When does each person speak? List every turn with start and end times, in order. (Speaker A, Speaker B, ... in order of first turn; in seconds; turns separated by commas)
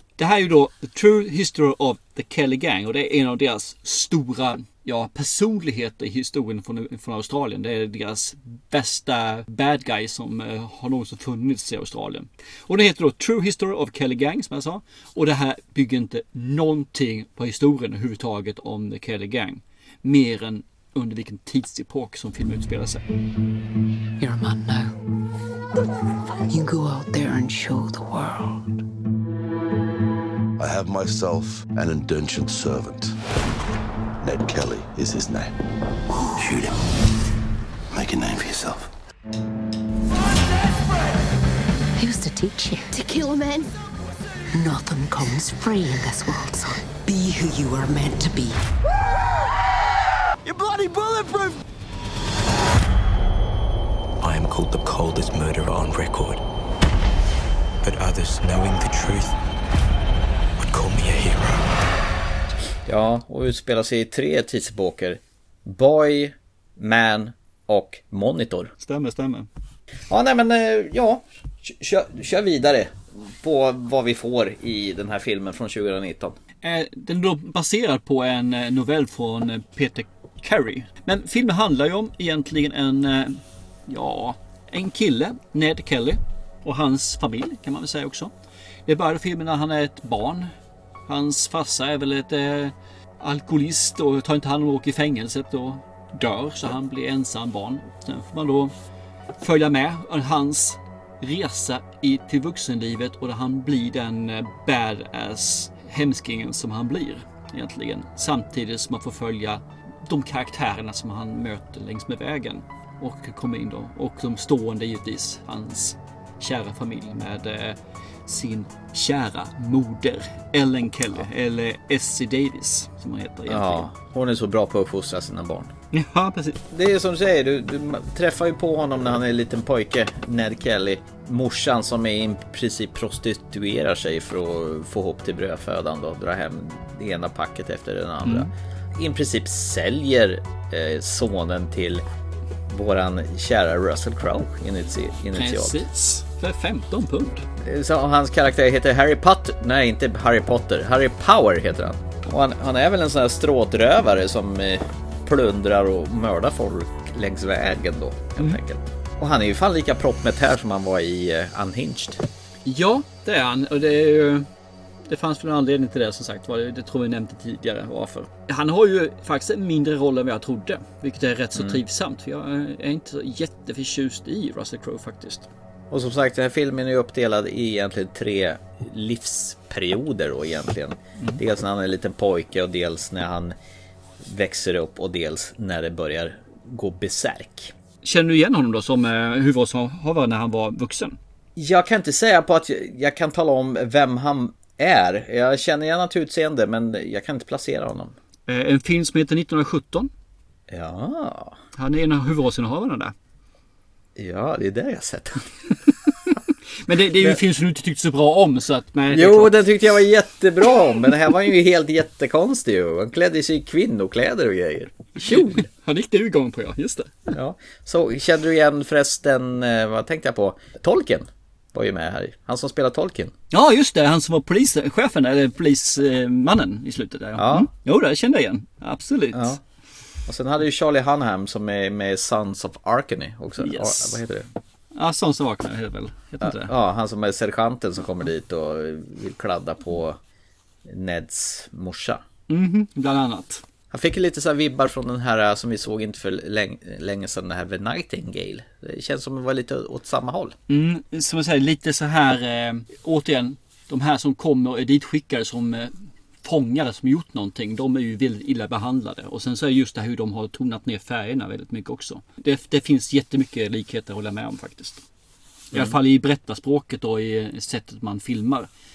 Speaker A: 0.2-23.0, Speaker B: 24.2-24.9, Speaker B: 26.5-28.7, Speaker C: 30.6-33.2, Speaker C: 34.2-35.5, Speaker C: 36.4-36.8, Speaker C: 37.9-38.9, Speaker B: 42.0-43.7, Speaker B: 44.5-48.6, Speaker D: 54.2-56.4, Speaker D: 57.8-59.3, Speaker D: 60.6-61.8, Speaker E: 62.9-68.7, Speaker A: 68.8-69.5, Speaker E: 70.1-76.4, Speaker A: 76.6-88.3, Speaker A: 88.9-90.5, Speaker A: 91.1-98.7, Speaker A: 99.4-123.9, Speaker E: 123.5-125.7, Speaker A: 125.9-126.6, Speaker E: 126.7-142.1, Speaker A: 138.2-138.5, Speaker E: 142.7-145.8, Speaker A: 145.3-147.5, Speaker E: 147.6-162.3, Speaker A: 162.7-164.5, Speaker A: 165.1-175.5, Speaker E: 171.6-171.8, Speaker E: 175.9-183.6, Speaker E: 184.2-187.7, Speaker A: 188.0-191.2, Speaker E: 191.6-198.1, Speaker A: 198.5-200.1, Speaker E: 200.7-201.6, Speaker A: 201.8-203.1, Speaker E: 204.2-205.5, Speaker A: 206.8-209.6, Speaker E: 209.1-215.7, Speaker A: 215.3-217.3, Speaker E: 217.3-223.3, Speaker A: 223.5-229.6, Speaker E: 227.4-227.7, Speaker E: 229.3-229.6, Speaker E: 230.3-234.5, Speaker A: 233.6-234.2, Speaker A: 234.9-236.7, Speaker E: 236.4-240.2, Speaker E: 240.8-242.2, Speaker A: 242.5-243.6, Speaker E: 243.9-250.6, Speaker A: 250.7-265.0, Speaker A: 265.7-268.7